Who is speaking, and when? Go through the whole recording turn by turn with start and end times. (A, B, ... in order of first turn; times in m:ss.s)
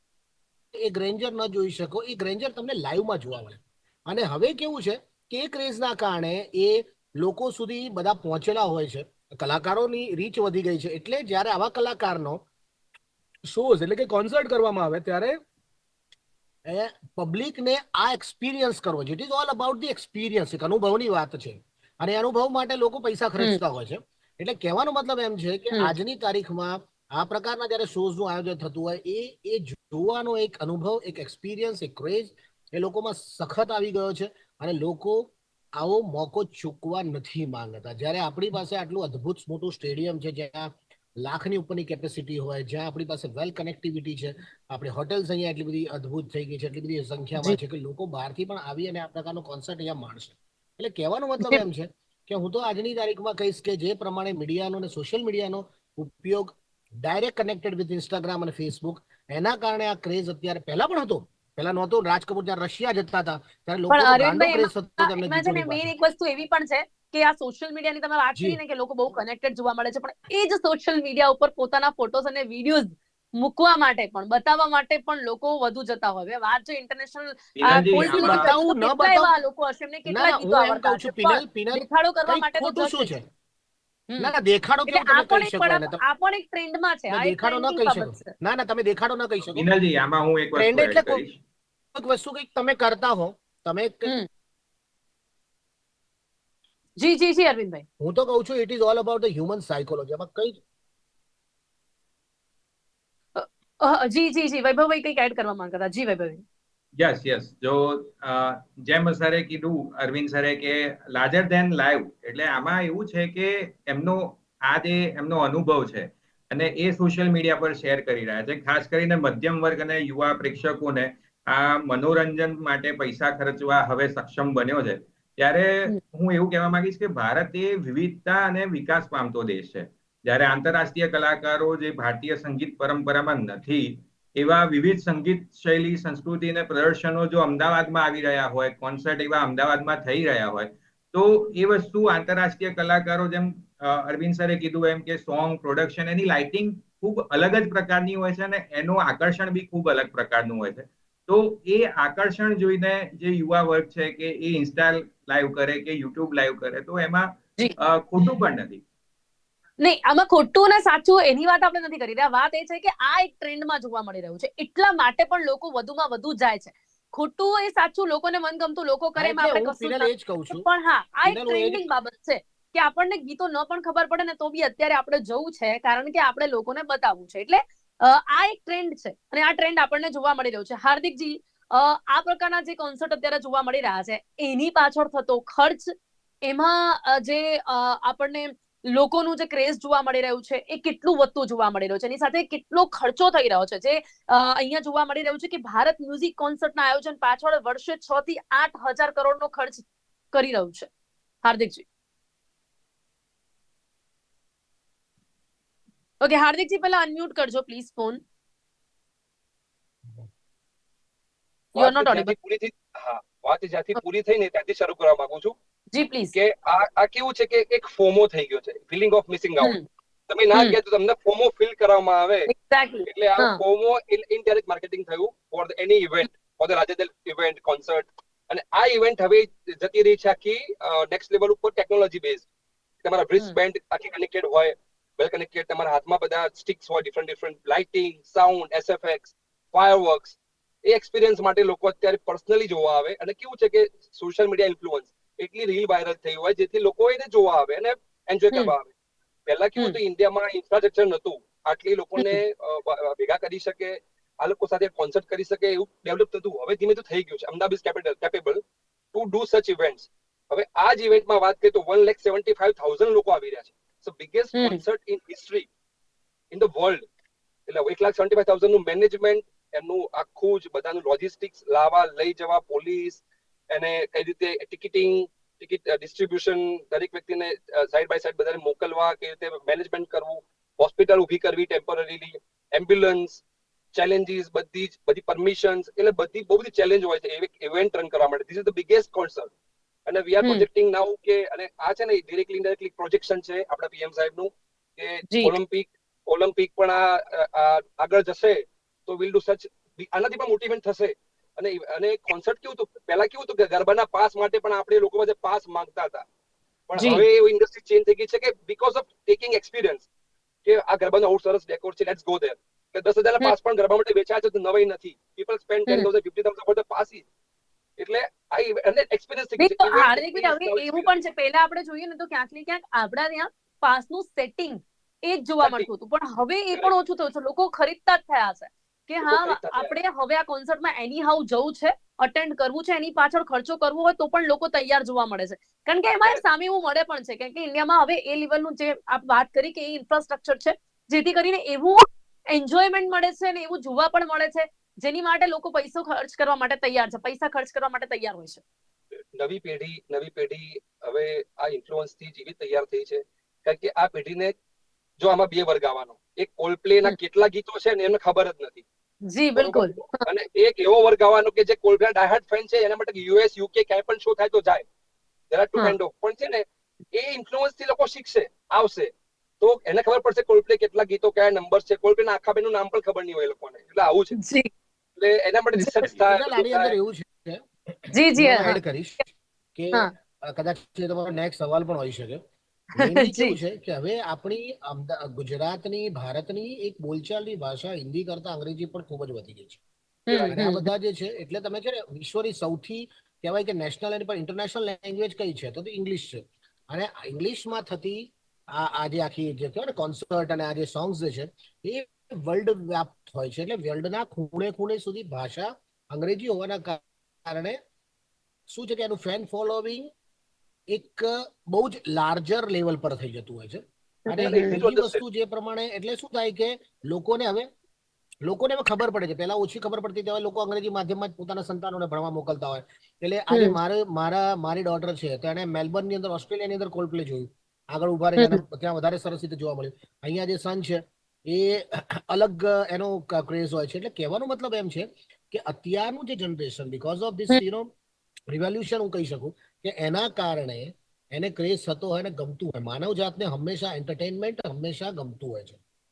0:00.7-0:12.4 A
0:13.5-0:15.4 A
0:16.7-1:05.9 A
1:03.9-1:23.1 B
1:17.6-1:18.5 C
1:17.7-1:19.3 A
1:20.1-1:23.3 A
1:24.1-1:24.4 B
1:24.2-1:26.0 A
1:24.9-1:28.3 B
1:27.1-1:29.7 A
1:29.5-1:31.4 C
1:30.6-1:31.2 A
1:32.0-1:34.1 A
1:37.0-1:37.8 B
1:38.0-1:40.6 A
1:43.4-1:46.4 B
1:47.0-2:38.8 C
2:39.8-3:05.9 B
2:49.2-2:50.7 A
2:51.2-2:51.9 A
3:06.5-3:20.9 B
3:21.4-3:21.8 B
3:26.2-3:28.2 B
3:31.8-3:32.3 B
3:31.8-3:35.6 D
3:35.9-3:36.4 B
3:36.3-3:39.8 D
3:39.6-3:39.9 B
3:40.3-3:42.5 D
3:42.5-3:43.6 B
3:43.0-3:52.5 D
3:53.0-4:08.9 D
4:09.5-4:18.6 D
4:19.1-4:25.7 D
4:24.6-4:24.8 B
4:26.5-4:27.1 D
4:27.7-4:43.4 D
4:43.9-4:49.5 D
4:50.1-5:06.3 D
4:55.3-4:55.5 B
5:06.9-5:10.1 D
5:07.0-5:07.2 B
5:10.6-5:17.2 D
5:18.0-5:21.1 D
5:19.6-5:48.6 B
5:25.6-5:25.9 D
5:29.2-5:29.9 D
5:49.4-5:54.6 D
5:55.2-5:58.8 D
5:59.3-6:00.2 B
5:59.6-6:04.8 D
6:05.5-6:14.4 D
6:14.4-6:14.7 B
6:15.2-6:16.9 D
6:15.8-6:16.0 B
6:16.2-6:22.4 A
6:18.1-6:18.8 B
6:22.9-6:29.8 A
6:23.0-6:23.6 B
6:30.3-6:30.9 B
6:30.3-6:30.6 D
6:30.5-6:47.8 A
6:48.7-6:50.1 A
6:50.9-6:57.7 A
6:54.3-6:54.8 B
6:54.6-6:55.2 D
6:58.4-7:17.9 A
7:03.5-7:03.8 B
7:18.5-7:25.8 A